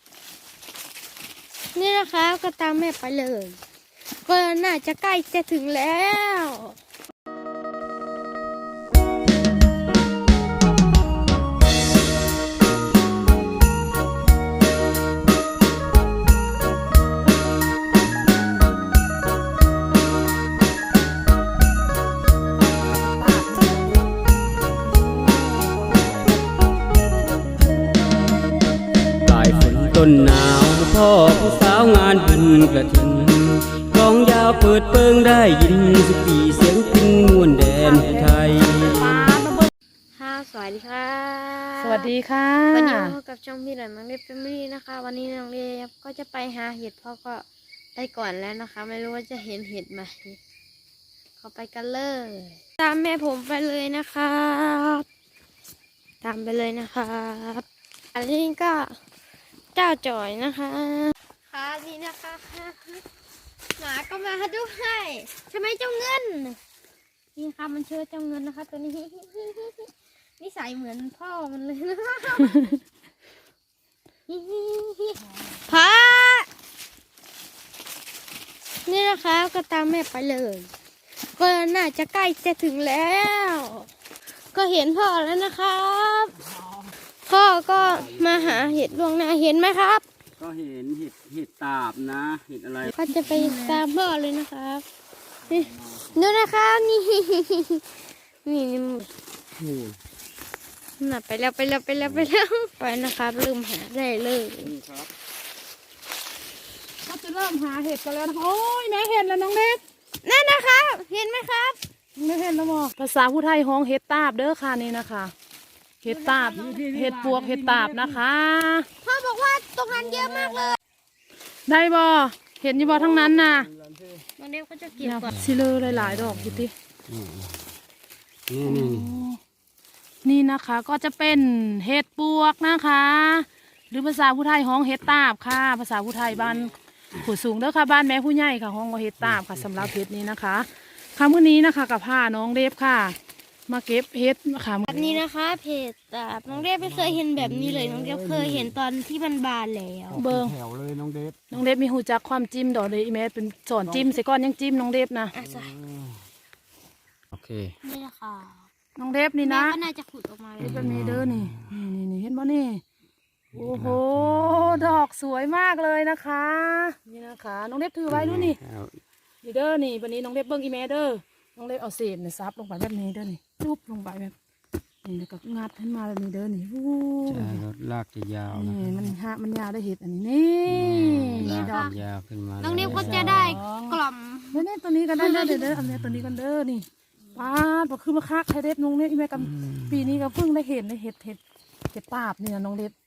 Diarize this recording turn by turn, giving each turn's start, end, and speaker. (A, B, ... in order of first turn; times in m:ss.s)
0:01.7-0:03.6 A
0:04.2-0:06.8 A
0:23.2-0:23.7 B
0:25.0-0:25.9 B
0:29.2-0:39.0 C
0:37.6-0:39.7 B
0:40.2-0:42.1 A
0:41.8-0:43.1 B
0:42.7-0:47.4 A
0:48.0-0:50.4 A
0:51.4-0:55.0 A
0:56.2-0:59.0 A
0:59.7-1:03.0 A
1:03.8-1:06.6 A
1:07.4-1:12.8 A
1:14.3-1:16.5 A
1:15.2-1:15.8 B
1:18.8-1:20.7 A
1:21.3-1:23.9 A
1:24.5-1:26.3 A
1:26.5-1:26.9 B
1:27.2-1:30.0 A
1:27.8-1:28.9 C
1:30.4-1:32.9 C
1:32.8-1:34.8 A
1:33.1-1:33.8 B
1:35.5-1:37.8 A
1:35.8-1:36.3 C
1:38.4-1:39.1 A
1:39.6-1:40.0 C
1:41.0-1:44.7 A
1:42.0-1:42.3 C
1:44.6-1:45.1 C
1:47.0-1:49.8 B
1:50.2-1:51.8 A
1:52.2-1:55.3 B
1:56.0-1:58.9 B
1:56.0-1:56.9 A
1:59.0-2:00.8 A
2:01.7-2:03.7 B
2:02.8-2:04.2 C
2:04.4-2:05.3 A
2:05.0-2:06.7 B
2:05.3-2:07.7 C
2:08.5-2:09.2 C
2:08.6-2:09.4 B
2:10.2-2:23.2 B
2:19.2-2:19.9 C
2:23.7-2:25.1 B
2:24.9-2:30.2 A
2:26.6-2:28.8 C
2:30.1-2:31.4 C
2:30.1-2:30.6 B
2:31.5-2:35.3 B
2:33.8-2:34.1 C
2:35.3-2:35.7 A
2:35.4-2:36.2 C
2:37.3-2:37.8 C
2:37.8-2:38.7 A
2:39.0-2:39.8 B
2:39.4-2:40.9 A
2:40.6-2:42.8 B
2:40.6-2:41.7 C
2:43.5-2:45.0 C
2:43.5-2:48.6 B
2:48.1-2:49.0 C
2:49.4-2:54.3 B
2:55.0-2:57.6 B
2:57.3-2:59.1 C
2:58.5-3:01.9 B
3:00.7-3:03.6 C
3:01.4-3:02.0 A
3:02.6-3:04.6 A
3:02.8-3:04.0 B
3:04.5-3:11.4 B
3:05.1-3:05.7 A
3:09.4-3:10.0 C
3:11.9-3:12.9 B